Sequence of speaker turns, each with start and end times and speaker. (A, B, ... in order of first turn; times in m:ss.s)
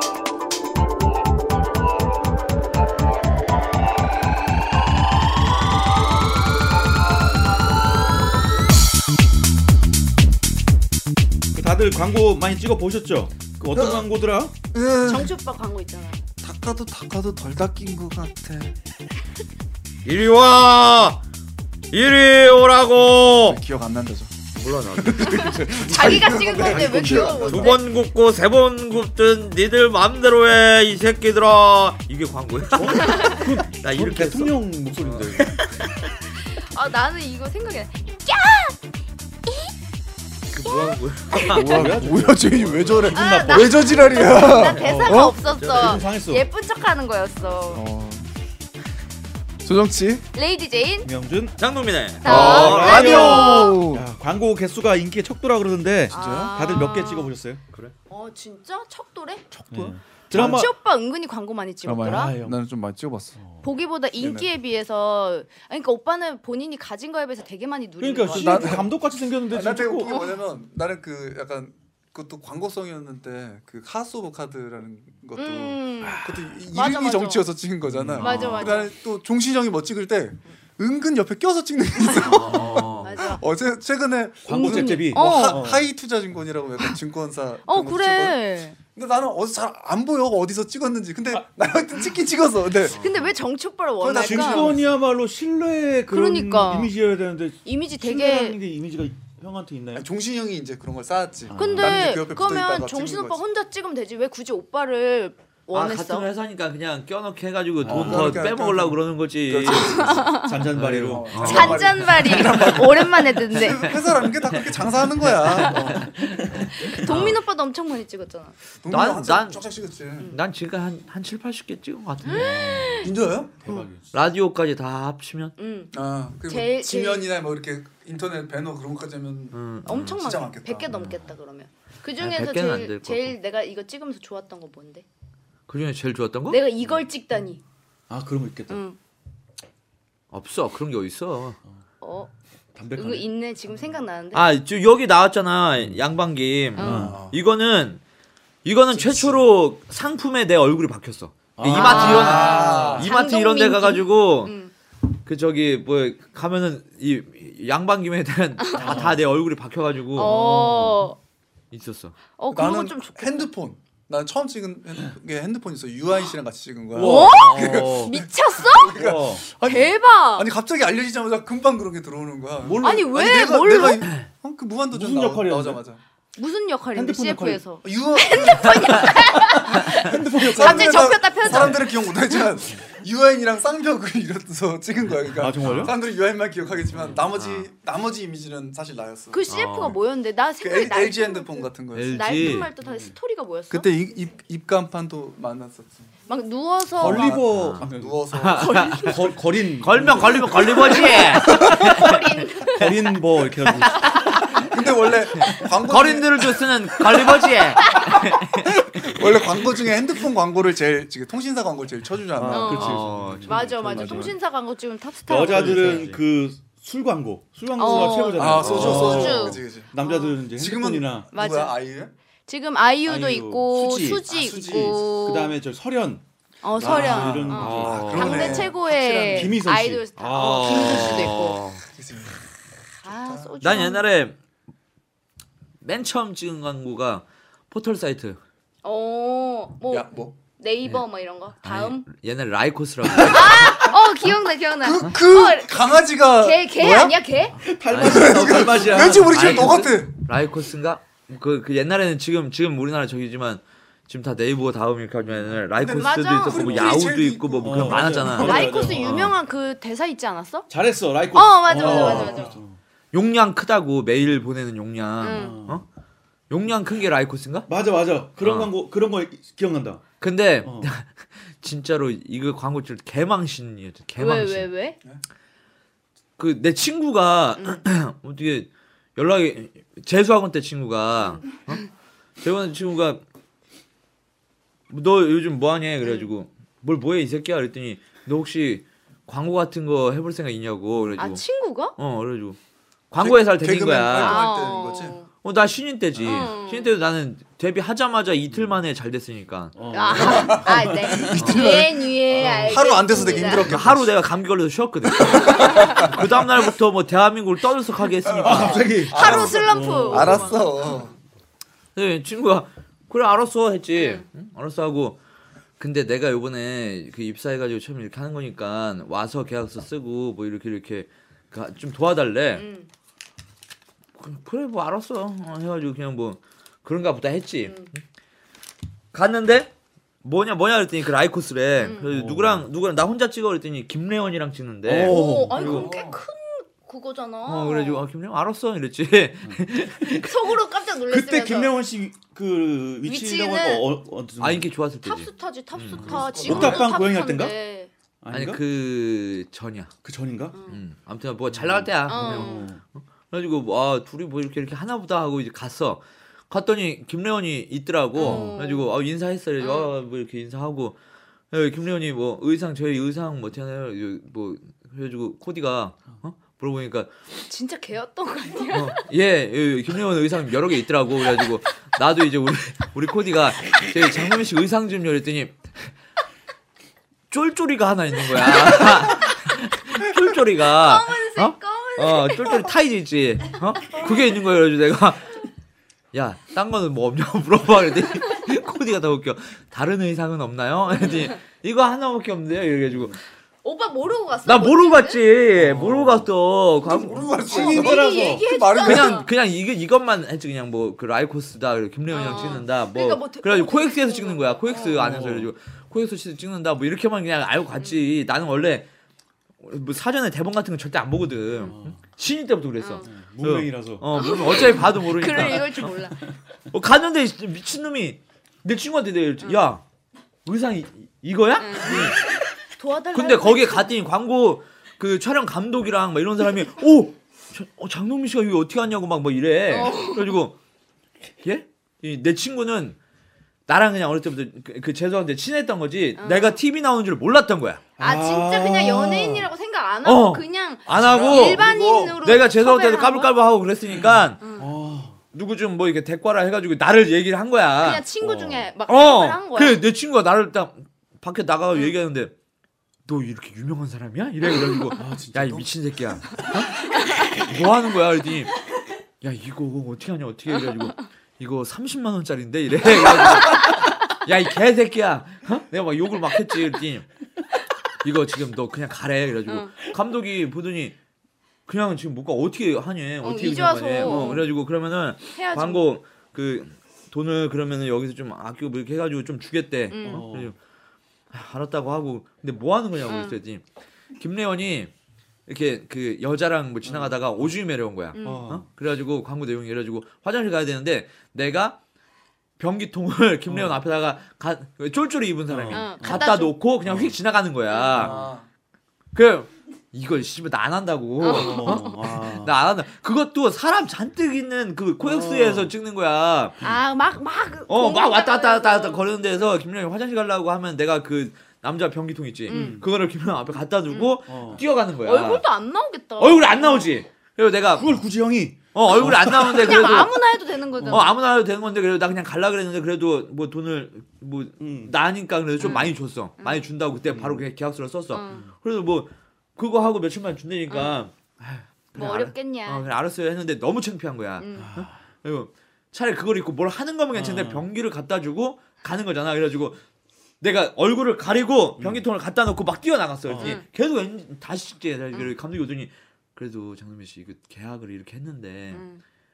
0:11.6-0:14.5 A
0:13.8-0:14.0 B
0:14.7-0:15.3 B
0:15.0-0:16.2 C
0:16.4-0:18.8 B
0:20.0-0:21.2 D
0:21.9-0:23.6 D
0:23.4-0:24.3 B
0:24.6-0:35.9 D
0:24.9-0:27.8 B
0:25.2-0:27.8 C
0:32.8-0:35.6 A
0:33.0-0:33.4 C
0:36.4-0:38.8 C
0:39.4-0:39.7 C
0:40.5-0:41.9 D
0:40.7-0:41.4 C
0:41.3-0:45.4 B
0:41.6-0:46.4 A
0:43.1-0:47.8 C
0:44.5-0:46.0 D
0:47.7-0:48.2 B
0:49.6-0:50.2 B
0:50.3-0:51.1 C
0:51.0-0:51.6 A
0:51.6-0:53.7 D
0:52.2-0:57.6 A
0:52.2-0:53.8 C
0:52.3-0:54.0 B
0:56.1-0:56.5 B
0:56.1-0:57.3 C
0:58.1-0:59.4 C
0:59.5-1:00.7 B
0:59.7-1:00.7 A
1:00.3-1:02.3 C
1:01.8-1:03.4 B
1:02.0-1:02.6 A
1:03.4-1:03.6 A
1:03.6-1:08.8 C
1:04.2-1:04.5 B
1:08.0-1:10.2 A
1:08.3-1:08.9 B
1:09.5-1:28.4 B
1:10.0-1:10.4 C
1:15.4-1:17.4 C
1:16.0-1:16.6 A
1:17.8-1:18.6 A
1:18.2-1:18.9 C
1:18.2-1:18.8 D
1:22.0-1:23.4 C
1:22.3-1:23.1 D
1:24.4-1:25.7 C
1:24.4-1:25.9 A
1:27.7-1:28.8 C
1:28.9-1:33.0 B
1:32.9-1:34.7 C
1:32.9-1:33.3 D
1:34.0-1:34.9 B
1:34.2-1:40.1 A
1:36.1-1:36.9 C
1:37.6-1:38.6 C
1:40.0-1:43.4 B
1:41.5-1:42.2 A
1:41.6-1:46.3 C
1:45.7-1:50.1 D
1:47.8-1:48.5 A
1:47.8-1:50.4 B
1:49.8-1:50.6 C
1:50.3-1:52.2 A
1:50.7-1:52.0 D
1:51.0-1:56.1 B
1:51.4-1:53.9 C
1:53.8-1:57.4 D
1:56.4-1:56.7 A
1:57.0-1:58.6 C
1:58.8-2:00.3 B
1:58.9-1:59.6 D
2:00.3-2:02.7 D
2:02.2-2:03.1 C
2:02.3-2:04.1 A
2:03.0-2:03.8 B
2:04.1-2:05.5 D
2:05.6-2:05.9 C
2:05.9-2:10.9 B
2:06.5-2:07.3 C
2:09.5-2:10.2 D
2:09.8-2:15.0 C
2:12.2-2:13.4 D
2:15.7-2:16.6 D
2:16.5-2:17.6 C
2:18.1-2:18.8 A
2:18.7-2:19.0 C
2:20.3-2:21.6 D
2:22.0-2:22.3 C
2:22.7-2:23.3 A
2:22.9-2:24.4 C
2:24.3-2:28.0 D
2:26.8-2:27.1 C
2:26.8-2:27.2 A
2:26.8-2:27.4 B
2:28.6-2:34.5 D
2:28.9-2:29.4 B
2:31.6-2:33.0 A
2:31.7-2:34.7 C
2:31.9-2:33.1 B
2:35.2-2:40.3 D
2:38.6-2:39.0 C
2:38.7-2:39.2 A
2:40.1-2:41.2 C
2:40.2-2:41.1 A
2:41.7-2:42.2 D
2:42.4-2:43.5 C
2:42.5-2:56.0 B
2:47.0-2:49.0 C
2:47.0-2:47.6 A
2:47.0-2:48.1 D
2:48.9-2:49.4 A
2:49.6-2:50.5 C
2:52.6-2:53.1 A
2:52.8-2:54.0 C
2:54.9-2:55.8 A
2:56.4-3:02.3 C
2:56.9-2:57.6 A
2:57.8-3:09.4 B
3:00.0-3:01.7 A
3:05.3-3:06.0 A
3:05.6-3:05.9 D
3:06.9-3:07.2 A
3:07.4-3:07.7 D
3:09.3-3:13.9 C
3:09.5-3:10.0 D
3:10.6-3:12.6 B
3:11.9-3:12.7 D
3:12.8-3:13.1 A
3:13.7-3:16.1 B
3:16.3-3:17.4 C
3:16.9-3:18.2 A
3:17.0-3:18.7 B
3:17.5-3:19.2 D
3:18.6-3:19.2 C
3:19.1-3:22.1 A
3:19.8-3:22.4 D
3:20.9-3:21.8 B
3:21.4-3:22.9 C
3:22.7-3:24.4 A
3:23.7-3:24.4 D
3:23.9-3:24.5 C
3:24.6-3:26.7 B
3:25.4-3:29.6 D
3:27.4-3:28.0 B
3:28.9-3:34.4 B
3:32.3-3:34.2 A
3:32.5-3:36.0 C
3:32.7-3:34.2 D
3:35.3-3:41.3 A
3:35.4-3:36.2 D
3:37.8-3:40.4 C
3:37.8-3:39.9 B
3:38.6-3:39.6 D
3:40.6-3:42.1 B
3:41.3-3:41.8 C
3:42.5-3:45.5 C
3:43.0-3:46.2 A
3:44.3-3:45.0 B
3:46.6-3:51.6 C
3:46.7-3:48.7 A
3:46.8-3:49.6 B
3:47.5-3:48.7 D
3:49.3-3:50.0 A
3:50.2-3:51.8 D
3:50.7-3:51.2 A
3:51.9-3:52.4 B
3:53.0-3:54.0 C
3:53.0-3:53.9 B
3:53.6-3:54.4 D
3:55.8-3:58.4 D
3:58.8-4:02.0 C
3:59.9-4:00.4 B
4:01.6-4:03.9 D
4:03.2-4:05.7 C
4:03.5-4:03.9 B
4:04.8-4:07.2 B
4:06.3-4:07.6 C
4:07.5-4:09.8 A
4:07.9-4:19.4 D
4:08.0-4:10.2 B
4:15.2-4:15.6 A
4:15.8-4:18.7 B
4:15.9-4:17.1 C
4:17.6-4:19.3 A
4:18.4-4:20.7 C
4:20.7-4:22.8 A
4:21.3-4:22.5 C
4:21.7-4:22.6 B
4:23.1-4:25.8 D
4:25.2-4:25.6 C
4:25.2-4:25.8 A
4:26.5-4:27.7 D
4:27.7-4:30.0 A
4:28.4-4:28.7 D
4:30.2-4:34.7 D
4:30.6-4:30.9 A
4:34.2-4:35.0 C
4:36.4-4:41.8 D
4:41.2-4:41.8 C
4:42.4-4:43.2 D
4:44.9-4:51.4 D
4:46.0-4:46.3 C
4:51.2-4:51.9 C
4:52.0-4:52.6 D
4:53.1-4:54.5 D
4:53.2-4:55.2 B
4:54.2-4:55.3 C
4:55.4-5:00.5 D
4:56.2-4:56.5 A
4:56.2-4:56.9 C
4:58.5-4:58.8 A
4:59.8-5:01.4 A
4:59.9-5:03.7 C
5:00.2-5:04.2 B
5:01.4-5:01.8 D
5:02.4-5:03.5 A
5:03.2-5:08.9 D
5:05.1-5:06.3 B
5:05.5-5:06.0 C
5:08.2-5:11.1 B
5:08.4-5:10.6 A
5:09.1-5:11.0 C
5:11.9-5:15.2 D
5:14.0-5:14.2 C
5:15.8-5:22.6 D
5:22.6-5:22.9 C
5:24.2-5:28.0 D
5:27.6-5:27.9 C
5:29.1-5:29.7 D
5:30.2-5:35.9 D
5:31.8-5:32.1 C
5:31.9-5:32.6 A
5:34.8-5:35.9 A
5:35.0-5:38.1 C
5:35.6-5:36.2 B
5:37.5-5:40.5 D
5:40.2-5:41.8 C
5:41.1-5:44.7 A
5:43.0-5:43.9 C
5:44.4-5:46.9 D
5:45.0-5:47.9 C
5:46.0-5:46.9 B
5:46.0-5:47.6 A
5:48.2-5:48.6 A
5:48.3-5:49.9 D
5:50.0-5:50.6 A
5:50.5-5:50.8 C
5:50.7-5:52.6 D
5:51.5-5:52.8 A
5:52.1-5:52.7 C
5:53.3-6:01.0 D
5:58.2-5:58.9 C
5:58.2-5:58.6 A
5:59.6-5:59.9 C
6:01.5-6:07.1 D
6:07.5-6:09.0 C
6:08.7-6:15.9 D
6:17.3-6:25.4 D
6:20.7-6:22.8 C
6:26.1-6:33.2 D
6:31.0-6:31.3 C
6:33.6-6:35.2 C
6:34.5-6:37.3 D
6:35.6-6:36.3 A
6:36.8-6:39.2 B
6:37.4-6:39.3 C
6:37.5-6:38.5 A
6:38.8-6:48.9 D
6:42.1-6:45.0 C
6:44.8-6:45.5 A
6:49.6-6:55.9 D
6:51.6-6:52.0 A
6:52.8-6:53.1 C
6:53.0-6:54.3 A
6:54.2-6:56.2 C
6:55.3-6:55.9 A
6:56.7-6:59.8 D
7:00.4-7:02.2 D
7:01.6-7:03.9 C
7:03.1-7:10.6 D
7:09.7-7:10.4 C
7:11.4-7:13.0 D
7:13.7-7:17.9 D
7:16.2-7:16.6 C
7:18.0-7:19.5 A
7:18.0-7:23.3 C
7:20.0-7:21.7 D
7:20.9-7:22.2 B
7:22.2-7:24.4 D
7:24.4-7:24.7 C
7:24.6-7:25.2 A
7:25.3-7:28.0 D
7:27.8-7:29.8 C
7:28.2-7:28.7 A
7:28.9-7:32.3 D
7:33.1-7:36.7 D
7:35.0-7:35.7 A
7:36.9-7:37.3 C
7:37.3-7:38.5 D
7:39.2-7:47.1 D
7:43.4-7:43.8 C
7:48.0-7:50.9 D
7:49.5-7:49.8 C
7:51.7-8:00.6 D
7:53.2-7:54.5 C
7:54.1-7:54.4 A
7:55.3-7:55.9 C
7:59.9-8:00.2 C
8:00.0-8:00.6 A
8:01.3-8:03.6 D
8:03.1-8:03.4 C
8:04.2-8:04.9 D
8:05.5-8:11.8 D
8:06.8-8:07.4 A
8:08.1-8:08.5 C
8:08.2-8:08.7 A
8:12.6-8:18.2 D
8:13.5-8:13.8 A
8:15.5-8:16.3 A
8:15.7-8:16.6 C
8:16.8-8:17.2 A
8:17.7-8:18.0 C
8:17.9-8:18.3 A
8:17.9-8:18.5 B
8:19.1-8:26.6 D
8:21.2-8:22.0 C
8:21.2-8:22.5 A
8:25.0-8:25.7 A
8:26.6-8:29.5 C
8:27.7-8:35.4 D
8:32.5-8:32.8 C
8:32.5-8:32.8 A
8:33.9-8:34.2 C
8:34.3-8:34.6 A
8:35.0-8:37.0 C
8:36.2-8:37.9 D
8:37.7-8:39.8 A
8:38.7-8:40.2 D
8:39.3-8:41.1 C
8:40.8-8:41.1 A
8:40.8-8:59.8 D
8:44.6-8:44.9 A
8:45.6-8:46.7 C
8:47.1-8:47.5 A
8:48.1-8:48.5 C
8:50.7-8:51.0 C
8:52.0-8:52.8 C
8:54.4-8:54.7 C
8:54.6-8:55.0 A
8:57.1-8:57.7 A
9:00.4-9:08.8 D
9:01.8-9:02.0 A
9:03.3-9:03.6 A
9:03.4-9:03.6 C
9:08.7-9:09.0 C